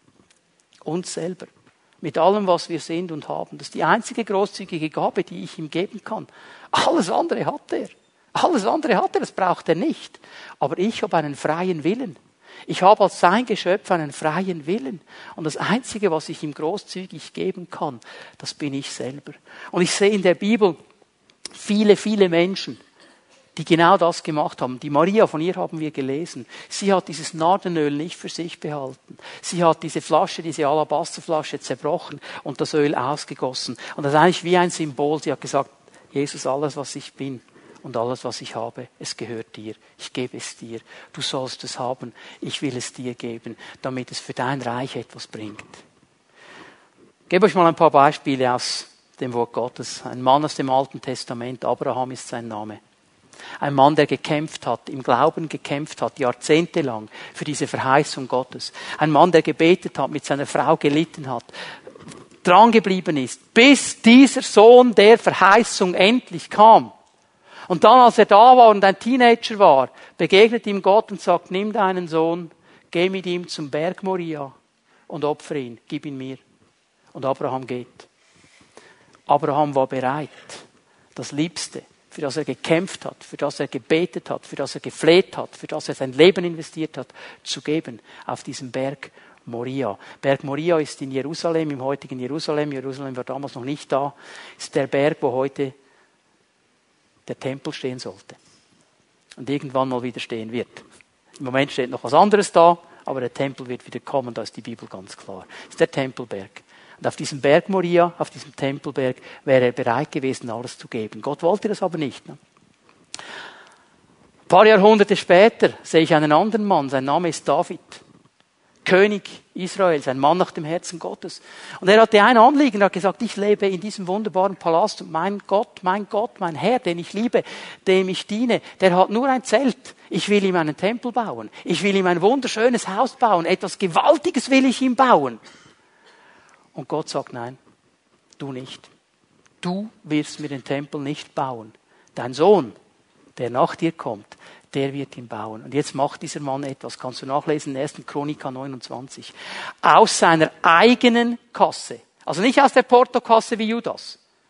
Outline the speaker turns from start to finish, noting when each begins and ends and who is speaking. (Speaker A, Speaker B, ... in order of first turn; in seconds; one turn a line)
Speaker A: 0.8-20.8
Speaker A: 21.5-22.8
Speaker A: 23.6-45.8
Speaker A: 47.3-52.8
Speaker A: 53.6-61.5
Speaker A: 62.4-66.9
Speaker A: 67.7-74.5
Speaker A: 75.1-76.4
Speaker A: 77.1-78.1
Speaker A: 79.3-80.6
Speaker A: 81.2-95.7
Speaker A: 97.3-98.4
Speaker A: 99.4-100.8
Speaker A: 101.4-112.4
Speaker A: 114.5-118.0
Speaker A: 118.8-135.4
Speaker A: 136.7-137.6
Speaker A: 138.4-138.9
Speaker A: 139.6-142.8
Speaker A: 143.4-154.2